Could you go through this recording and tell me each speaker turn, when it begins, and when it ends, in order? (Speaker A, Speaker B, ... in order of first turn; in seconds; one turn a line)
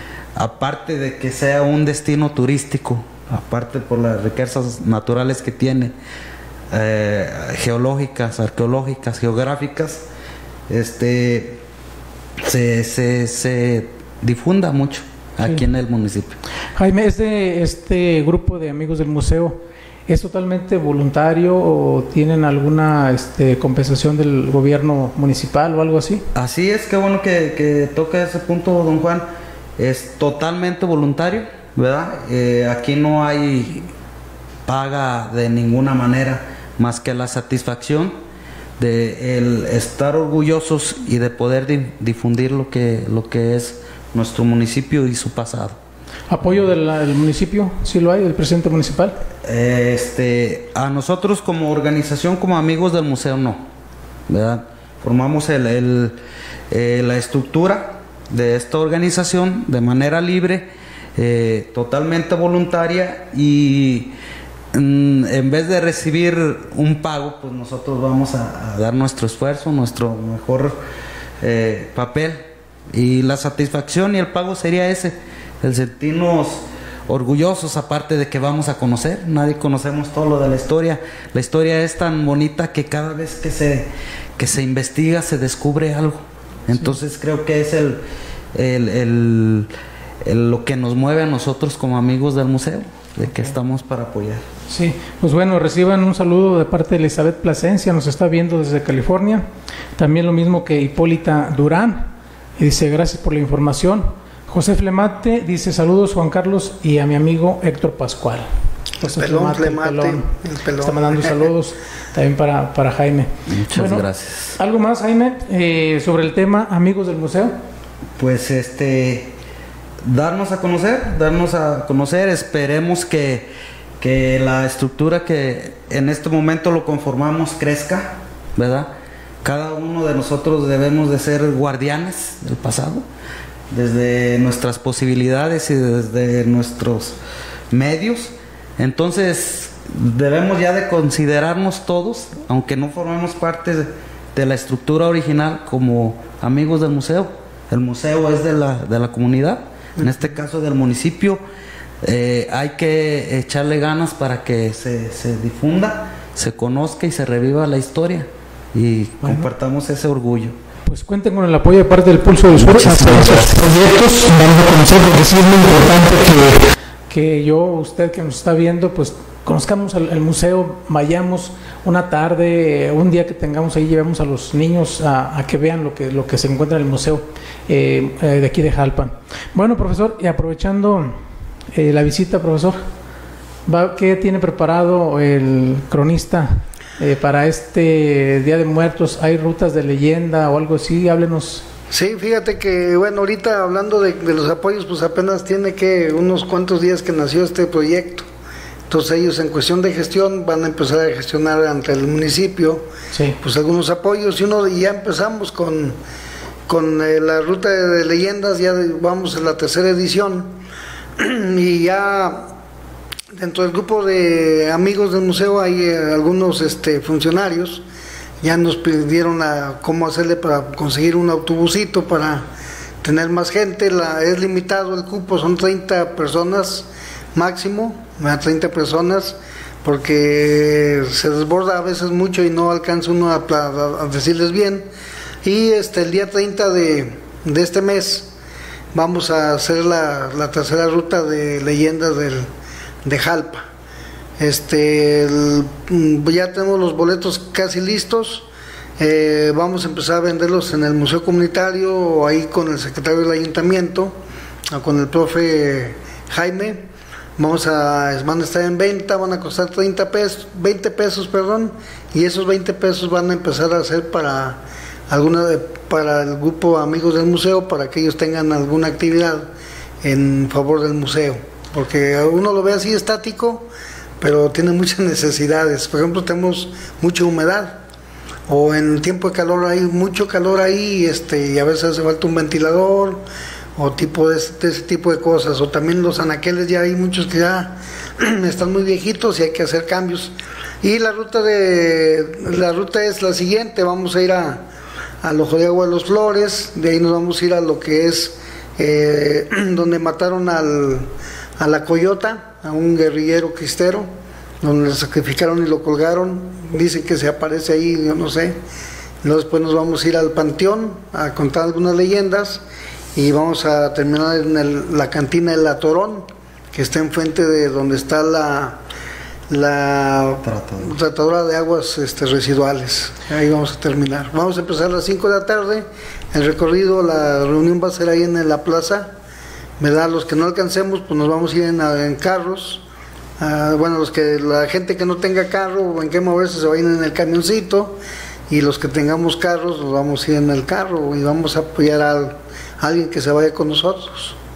Speaker A: 0.4-6.0
Speaker A: 6.7-10.1
Speaker A: 10.7-11.6
Speaker A: 12.4-16.4
Speaker B: 16.8-26.2
Speaker A: 26.3-29.2
Speaker A: 29.8-33.8
Speaker A: 34.7-38.1
Speaker A: 38.8-45.8
Speaker B: 46.3-49.2
Speaker A: 49.4-53.7
Speaker A: 54.3-56.2
Speaker A: 56.7-64.1
Speaker A: 64.7-70.8
Speaker A: 71.4-88.0
Speaker A: 88.5-89.7
Speaker A: 90.2-94.4
Speaker B: 94.7-99.5
Speaker B: 100.0-108.5
Speaker C: 109.0-111.5
Speaker B: 109.0-110.3
Speaker B: 110.8-114.0
Speaker A: 113.5-114.6
Speaker B: 114.6-117.5
Speaker A: 118.2-119.3
Speaker A: 120.0-128.9
Speaker A: 129.4-133.0
Speaker A: 133.7-137.2
Speaker A: 137.7-151.4
Speaker A: 152.0-160.6
Speaker B: 160.9-181.2
Speaker A: 162.5-163.7
Speaker B: 181.7-182.8
Speaker B: 183.7-191.7
Speaker C: 191.9-198.3
Speaker C: 198.9-202.8
Speaker B: 203.1-203.4
Speaker C: 203.4-206.0
Speaker C: 206.7-210.6
Speaker C: 211.2-212.5
Speaker C: 213.3-217.8
Speaker C: 218.4-222.5
Speaker C: 223.0-234.9
Speaker C: 235.4-238.3
Speaker C: 238.9-242.5
Speaker C: 243.1-243.7
Speaker C: 244.4-248.5
Speaker C: 249.0-254.2
Speaker C: 254.7-269.5
Speaker C: 270.0-273.7
Speaker C: 274.2-277.8
Speaker C: 278.5-283.2
Speaker C: 283.8-294.6
Speaker C: 295.2-304.1
Speaker C: 304.6-308.6
Speaker C: 309.2-312.6
Speaker C: 313.1-318.8
Speaker C: 319.5-329.1
Speaker A: 320.4-320.9
Speaker C: 329.8-332.8
Speaker C: 333.4-338.0
Speaker C: 338.5-344.4